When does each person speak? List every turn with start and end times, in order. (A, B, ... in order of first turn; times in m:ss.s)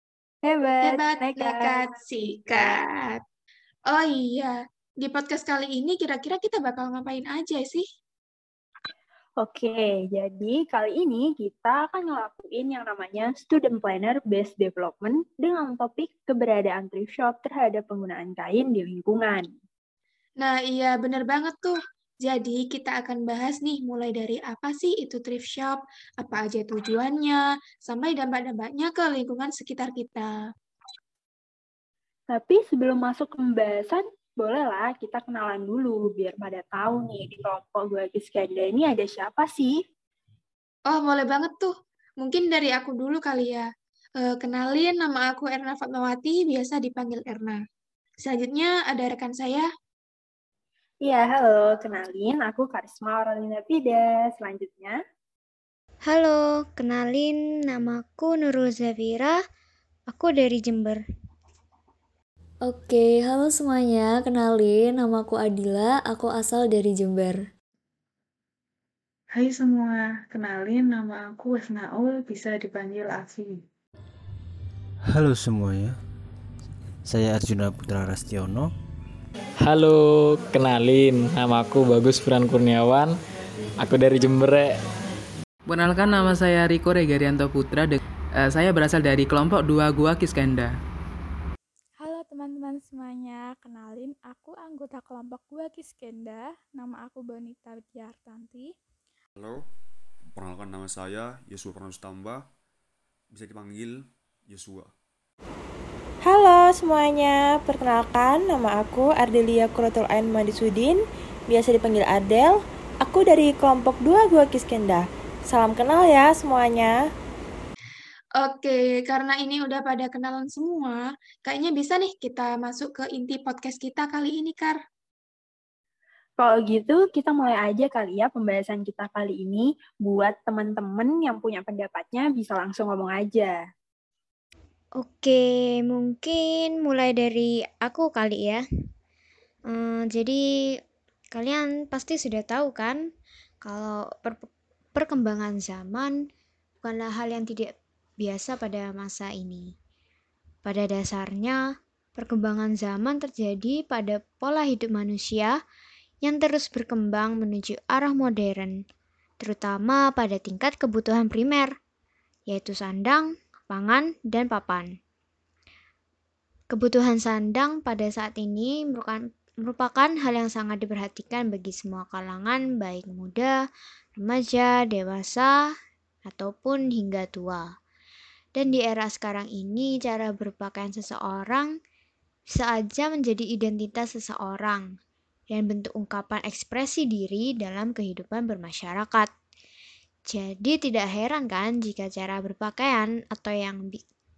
0:00.4-0:01.8 A
0:00.8-0:03.2 B
0:03.8-0:07.9 B
0:09.4-0:19.5 A
0:20.4-0:30.5 B
0:32.3-0:39.7 A
0:40.8-0:47.6 B
0:48.2-0:49.7 B
0:51.0-0:55.0 A
0:56.1-0:59.4 C
1:00.1-1:01.0 C
1:02.6-1:07.4 D
1:09.4-1:13.5 E
1:15.1-1:16.0 F
1:17.0-1:18.7 F
1:19.6-1:23.2 G
1:23.8-1:24.8 G
1:25.6-1:30.7 H
1:32.0-1:38.7 I
1:39.4-1:39.6 J
1:40.4-1:42.4 J
1:43.3-1:44.9 J
1:46.2-1:57.0 K
1:58.3-2:04.8 B
2:06.4-2:13.6 A
2:15.0-2:18.6 C
2:19.7-2:20.4 C
2:21.3-2:23.1 C
2:23.6-2:26.2 C
2:26.8-2:27.7 C
2:28.2-2:29.7 C
2:30.6-2:31.6 C
2:32.2-2:35.6 C
2:36.2-2:38.7 C
2:39.4-2:41.7 C
2:42.5-2:44.9 C
2:46.7-2:53.5 C
2:54.2-2:55.5 C
2:56.2-2:57.7 C
2:58.6-3:01.7 C
3:02.5-3:04.9 C
3:05.5-3:09.3 C
3:10.3-3:14.0 C